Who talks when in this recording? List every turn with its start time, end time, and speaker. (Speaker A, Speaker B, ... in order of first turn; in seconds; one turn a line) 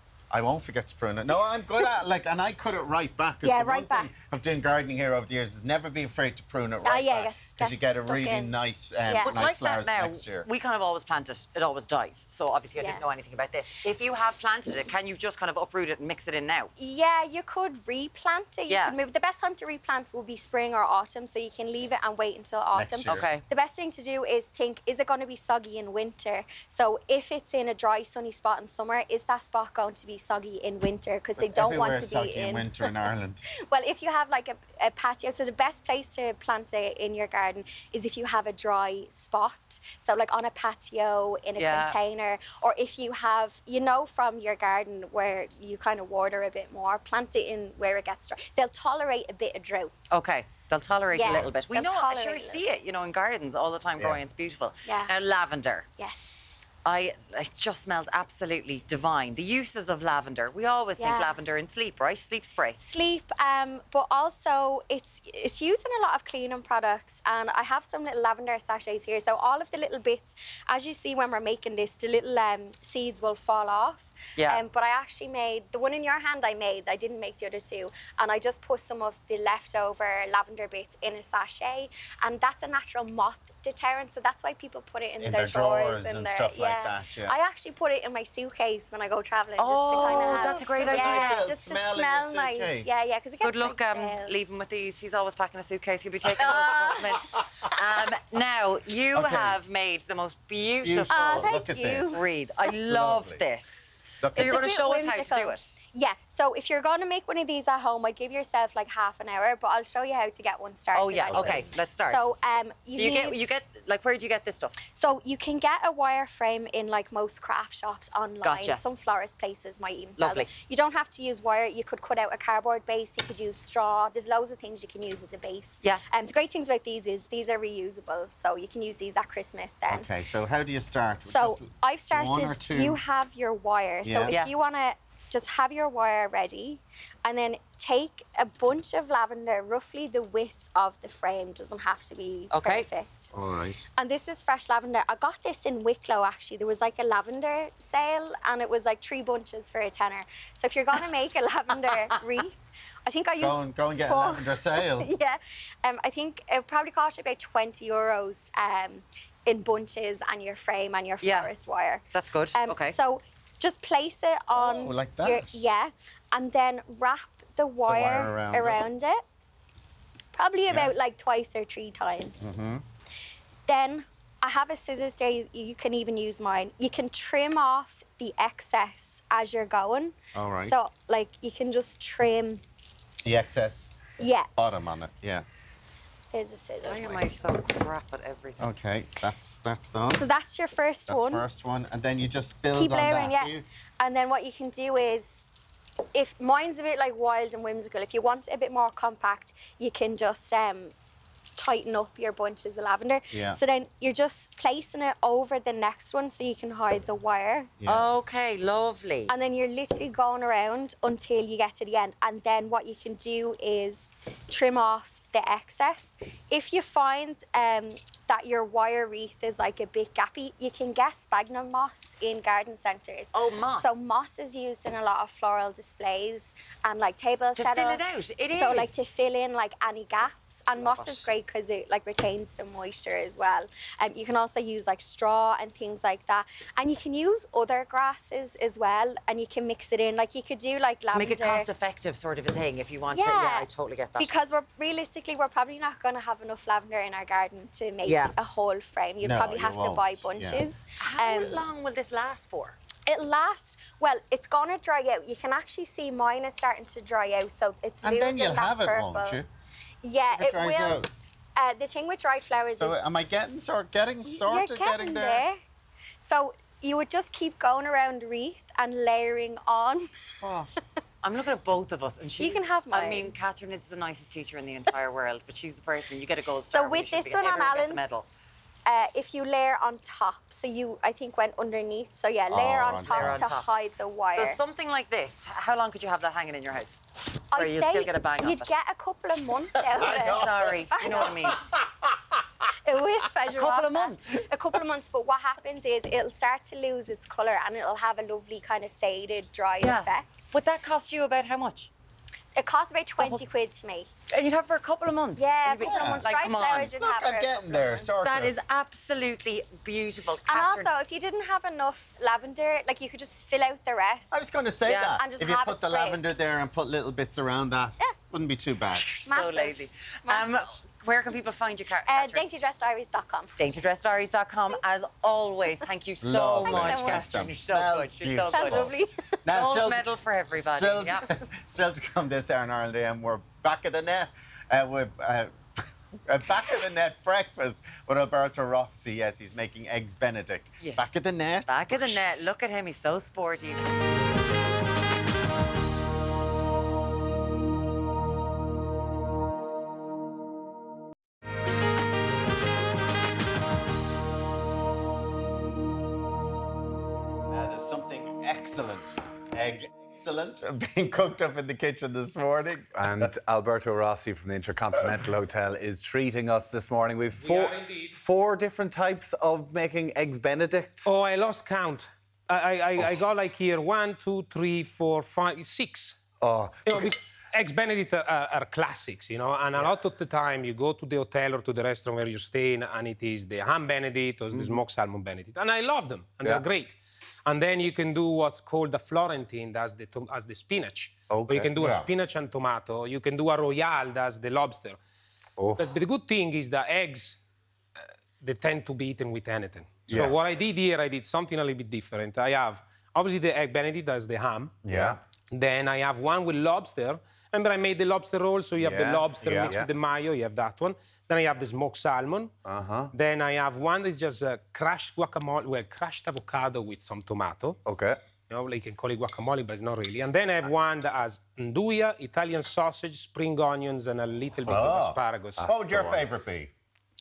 Speaker A: 0.3-10.5
Speaker B: 3.4-4.1
Speaker B: 6.8-9.4
Speaker C: 9.2-16.7
Speaker B: 12.8-13.0
Speaker B: 16.8-32.9
Speaker C: 18.7-19.0
Speaker A: 22.7-23.3
Speaker C: 23.1-23.4
Speaker A: 31.4-33.4
Speaker B: 33.7-49.9
Speaker C: 41.6-42.0
Speaker C: 50.1-55.9
Speaker B: 51.1-52.6
Speaker B: 54.9-55.1
Speaker B: 56.0-56.5
Speaker C: 56.8-62.8
Speaker B: 61.0-61.4
Speaker B: 62.8-94.3
Speaker C: 74.4-74.6
Speaker A: 85.2-87.4
Speaker C: 89.6-91.5
Speaker A: 89.9-93.0
Speaker C: 93.4-101.5
Speaker B: 96.5-96.8
Speaker A: 96.5-97.4
Speaker A: 99.1-99.5
Speaker A: 100.8-102.2
Speaker B: 101.1-102.2
Speaker C: 102.1-105.8
Speaker A: 102.8-103.4
Speaker A: 104.2-104.6
Speaker B: 104.3-113.5
Speaker C: 110.9-112.3
Speaker A: 111.3-111.6
Speaker C: 112.9-114.8
Speaker B: 115.0-130.1
Speaker C: 118.4-118.8
Speaker C: 120.2-120.5
Speaker A: 129.9-133.0
Speaker B: 131.3-143.3
Speaker A: 134.0-134.4
Speaker C: 134.3-134.5
Speaker C: 142.5-142.9
Speaker A: 143.3-143.8
Speaker B: 144.0-162.0
Speaker C: 151.9-152.2
Speaker A: 153.4-155.1
Speaker C: 161.2-161.5
Speaker C: 162.1-163.0
Speaker B: 162.6-169.2
Speaker A: 164.5-165.7
Speaker A: 167.9-168.8
Speaker B: 170.3-172.5
Speaker A: 170.7-170.9
Speaker A: 172.4-172.8
Speaker B: 173.7-182.6
Speaker A: 180.3-180.8
Speaker A: 183.2-185.4
Speaker B: 184.2-184.5
Speaker B: 186.3-187.5
Speaker C: 186.8-188.7
Speaker A: 188.6-190.3
Speaker B: 190.1-191.4
Speaker A: 191.1-193.6
Speaker B: 192.7-195.5
Speaker B: 196.1-200.9
Speaker B: 201.6-207.7
Speaker A: 203.3-203.6
Speaker A: 207.8-208.1
Speaker C: 207.8-209.3
Speaker B: 209.3-228.0
Speaker C: 223.3-224.0
Speaker C: 227.5-229.1
Speaker B: 228.5-241.7
Speaker C: 230.8-231.3
Speaker C: 241.1-244.4
Speaker B: 243.1-251.6
Speaker C: 248.1-248.4
Speaker A: 249.2-250.7
Speaker C: 251.0-252.8
Speaker B: 253.1-259.4
Speaker A: 258.0-259.5
Speaker B: 260.0-261.1
Speaker A: 260.3-261.1
Speaker B: 261.6-263.0
Speaker A: 262.8-265.4
Speaker B: 264.3-265.6
Speaker B: 266.2-270.1
Speaker A: 270.4-270.7
Speaker C: 271.2-278.3
Speaker B: 272.4-273.3
Speaker B: 276.7-278.2
Speaker B: 278.9-284.6
Speaker A: 282.5-283.5
Speaker C: 282.9-283.7
Speaker C: 284.3-287.0
Speaker B: 287.5-291.3
Speaker C: 287.5-288.8
Speaker A: 289.9-291.2
Speaker C: 290.0-291.6
Speaker B: 292.8-300.3
Speaker C: 293.5-294.4
Speaker C: 299.8-301.9
Speaker B: 302.6-304.1
Speaker C: 303.2-303.4
Speaker C: 304.3-306.9
Speaker B: 305.4-307.8
Speaker A: 305.8-308.6
Speaker C: 308.2-310.9
Speaker B: 310.5-314.5
Speaker A: 314.3-319.2
Speaker C: 314.8-315.2
Speaker B: 315.1-316.2
Speaker C: 318.9-322.5
Speaker B: 319.3-320.6
Speaker B: 322.1-323.5
Speaker C: 323.6-328.9
Speaker A: 326.2-335.6
Speaker B: 326.6-327.4
Speaker B: 328.5-329.1
Speaker C: 329.5-331.3
Speaker A: 336.3-342.2
Speaker C: 340.8-343.8
Speaker A: 357.5-363.3
Speaker D: 362.9-371.1
Speaker E: 367.4-368.1
Speaker E: 371.1-376.2
Speaker D: 376.4-377.1
Speaker E: 376.9-386.9
Speaker D: 384.5-384.8
Speaker E: 387.4-395.0
Speaker D: 391.3-392.0
Speaker D: 395.6-395.9
Speaker E: 395.8-397.4
Speaker E: 398.0-404.8
Speaker D: 400.1-400.5
Speaker A: 404.9-405.2
Speaker D: 404.9-405.2
Speaker E: 405.5-412.5
Speaker D: 408.8-409.9
Speaker A: 409.4-409.8
Speaker D: 412.6-413.1
Speaker E: 413.1-417.8
Speaker D: 417.8-418.2
Speaker E: 418.5-425.7
Speaker A: 424.7-426.7
Speaker D: 425.6-426.2